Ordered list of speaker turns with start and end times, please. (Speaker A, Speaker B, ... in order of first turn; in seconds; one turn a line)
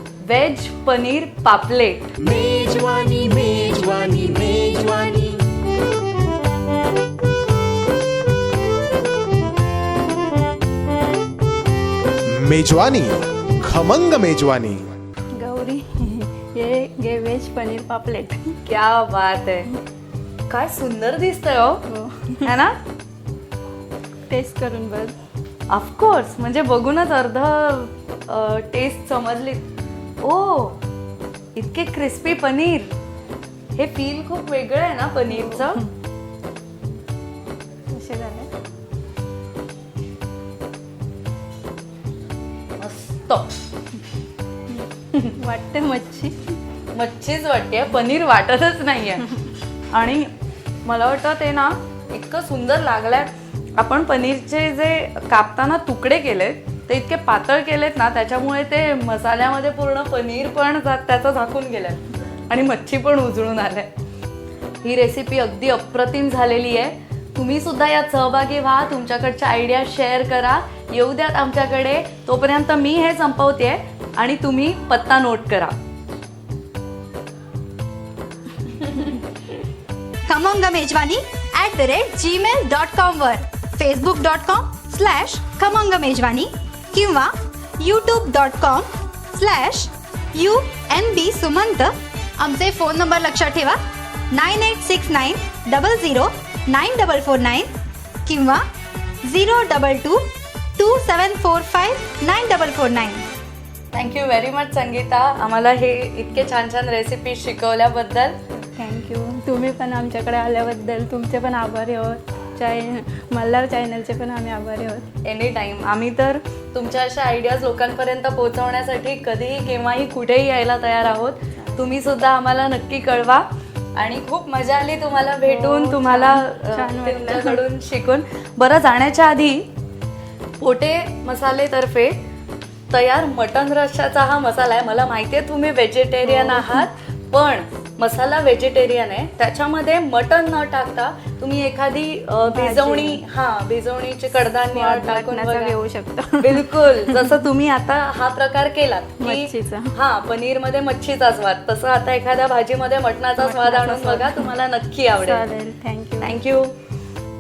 Speaker A: 0.3-2.1
Speaker B: 2.2-5.4
Speaker C: 12.3-14.9
Speaker D: 15.4-18.6
Speaker A: 18.6-19.7
Speaker A: 20.5-21.8
Speaker D: 21.9-22.5
Speaker A: 22.4-22.8
Speaker D: 24.3-25.1
Speaker A: 25.7-29.6
Speaker A: 30.2-30.8
Speaker A: 31.6-32.9
Speaker A: 33.8-35.8
Speaker D: 35.3-35.9
Speaker D: 37.9-38.5
Speaker A: 42.8-43.5
Speaker D: 44.7-46.5
Speaker A: 46.9-49.2
Speaker A: 49.9-50.3
Speaker A: 50.9-63.9
Speaker A: 64.8-75.8
Speaker E: 80.3-93.8
Speaker E: 94.3-97.7
Speaker E: 98.2-98.6
Speaker E: 99.2-100.2
Speaker E: 100.8-103.2
Speaker A: 103.9-108.4
Speaker D: 108.6-115.0
Speaker A: 115.2-123.5
Speaker D: 121.5-122.0
Speaker A: 124.0-129.7
Speaker D: 125.5-127.6
Speaker A: 130.6-132.2
Speaker A: 132.9-145.7
Speaker D: 136.2-136.9
Speaker D: 142.5-143.2
Speaker D: 144.7-147.4
Speaker A: 146.4-155.4
Speaker D: 149.2-149.9
Speaker D: 153.4-154.5
Speaker D: 155.2-156.4
Speaker A: 156.2-156.7